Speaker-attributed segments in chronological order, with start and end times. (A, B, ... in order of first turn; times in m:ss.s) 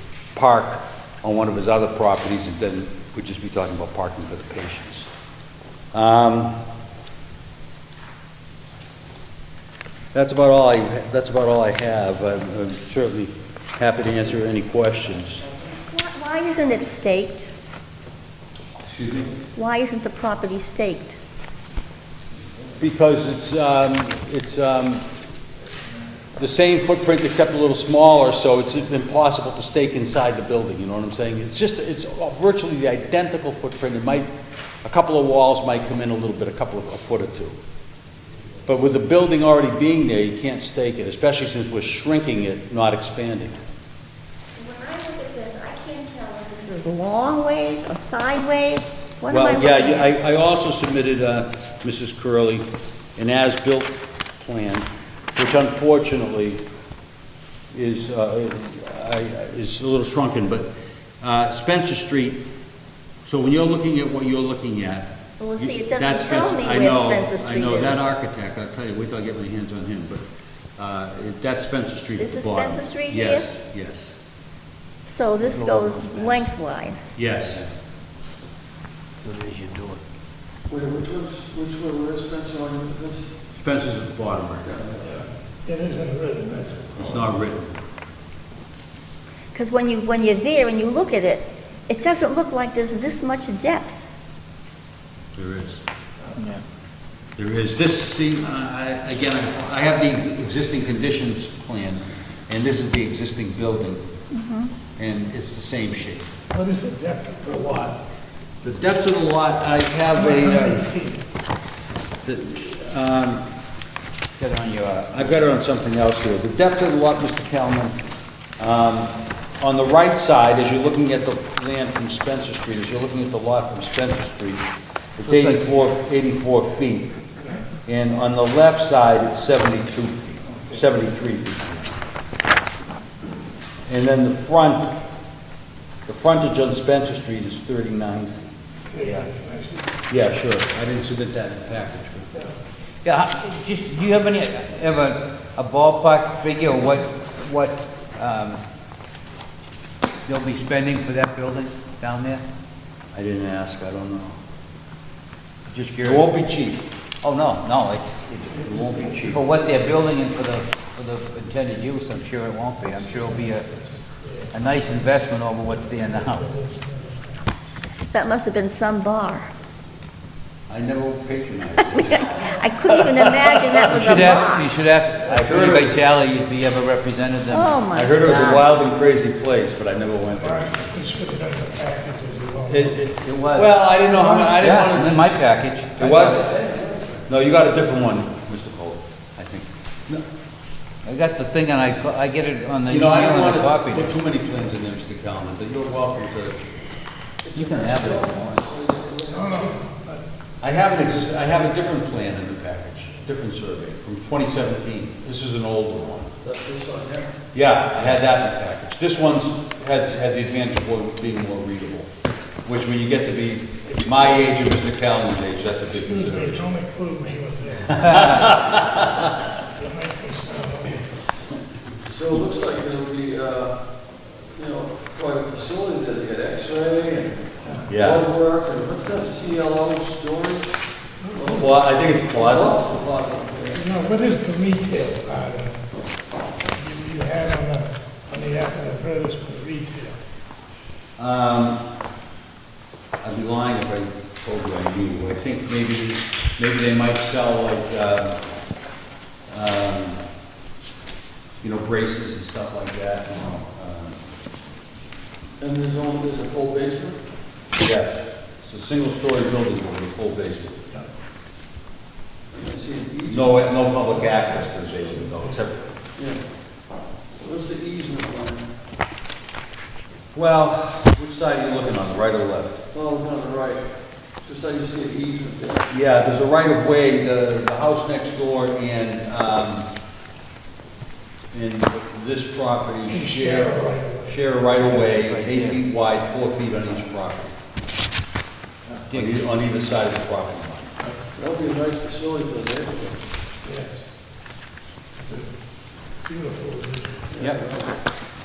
0:00.3-0:05.1 A
0:05.9-0:06.5 A
0:10.1-0:15.4 A
0:15.9-0:17.5 B
0:18.9-0:19.4 A
0:19.5-0:21.2 B
0:22.8-0:25.0 A
0:26.4-0:34.3 A
0:34.8-0:37.6 A
0:38.6-0:43.6 A
0:44.6-0:50.1 B
0:49.3-0:52.6 A
0:53.2-0:56.6 A
0:57.7-1:00.7 A
1:01.2-1:02.4 A
1:03.2-1:10.2 A
1:05.4-1:08.0 B
1:10.8-1:14.1 A
1:12.2-1:13.5 B
1:15.0-1:17.1 B
1:15.6-1:16.3 C
1:17.2-1:17.6 A
1:19.2-1:20.0 C
1:20.7-1:23.3 D
1:23.5-1:24.7 A
1:24.6-1:25.2 D
1:25.0-1:27.3 E
1:27.0-1:27.8 A
1:29.5-1:34.0 B
1:35.3-1:35.8 A
1:36.3-1:36.6 E
1:37.4-1:44.0 A
1:44.3-1:44.7 B
1:45.0-1:46.3 A
1:46.5-1:48.0 E
1:48.6-1:51.0 A
1:50.3-1:51.2 E
1:52.2-1:53.5 A
1:54.4-1:55.2 C
1:55.1-1:58.0 A
1:58.6-2:04.6 A
2:05.2-2:07.1 A
2:05.2-2:05.8 C
2:07.8-2:11.9 A
2:13.8-2:14.9 A
2:16.0-2:18.4 A
2:18.9-2:19.9 E
2:20.1-2:22.3 A
2:23.0-2:28.6 C
2:30.2-2:32.4 C
2:33.1-2:34.4 A
2:35.7-2:36.3 C
2:36.0-2:36.8 A
2:37.2-2:38.6 C
2:38.6-2:39.4 A
2:38.6-2:39.1 E
2:39.2-2:43.7 C
2:43.0-2:44.5 E
2:44.5-2:46.5 C
2:45.7-2:47.4 E
2:48.1-2:49.5 B
2:50.7-2:53.3 A
2:51.9-2:54.7 B
2:53.8-2:58.4 C
2:55.3-2:56.0 A
2:57.5-2:58.6 B
2:57.9-3:00.7 A
3:00.4-3:03.1 E
3:02.7-3:05.2 A
3:03.2-3:06.4 C
3:06.0-3:06.5 A
3:06.3-3:07.3 D
3:07.3-3:10.2 A
3:11.0-3:14.1 C
3:12.9-3:16.7 A
3:17.4-3:19.8 D
3:17.5-3:18.6 C
3:19.3-3:20.2 E
3:20.6-3:26.3 A
3:26.4-3:27.4 D
3:27.5-3:32.1 A
3:32.6-3:36.7 A
3:36.0-3:38.3 E
3:38.0-3:39.2 A
3:39.8-3:41.1 E
3:42.0-3:53.8 D
3:47.6-3:47.9 E
3:47.9-3:48.2 A
3:51.2-3:51.6 E
3:51.5-3:52.9 A
3:53.7-3:55.9 E
3:56.7-4:00.2 E
4:01.2-4:01.8 A
4:03.2-4:08.4 A
4:09.5-4:10.2 A
4:11.6-4:14.2 A
4:15.6-4:17.2 D
4:17.8-4:20.9 A
4:22.5-4:23.9 D
4:23.3-4:25.8 A
4:25.8-4:28.7 D
4:30.3-4:32.8 A
4:32.9-4:35.9 D
4:35.9-4:39.8 A
4:41.5-4:47.5 A
4:43.1-4:44.4 E
4:44.9-4:45.8 C
4:49.1-4:49.4 C
4:49.1-4:50.9 A
4:51.3-4:53.3 D
4:53.6-4:54.0 E
4:55.2-4:57.3 E
4:57.3-4:58.0 D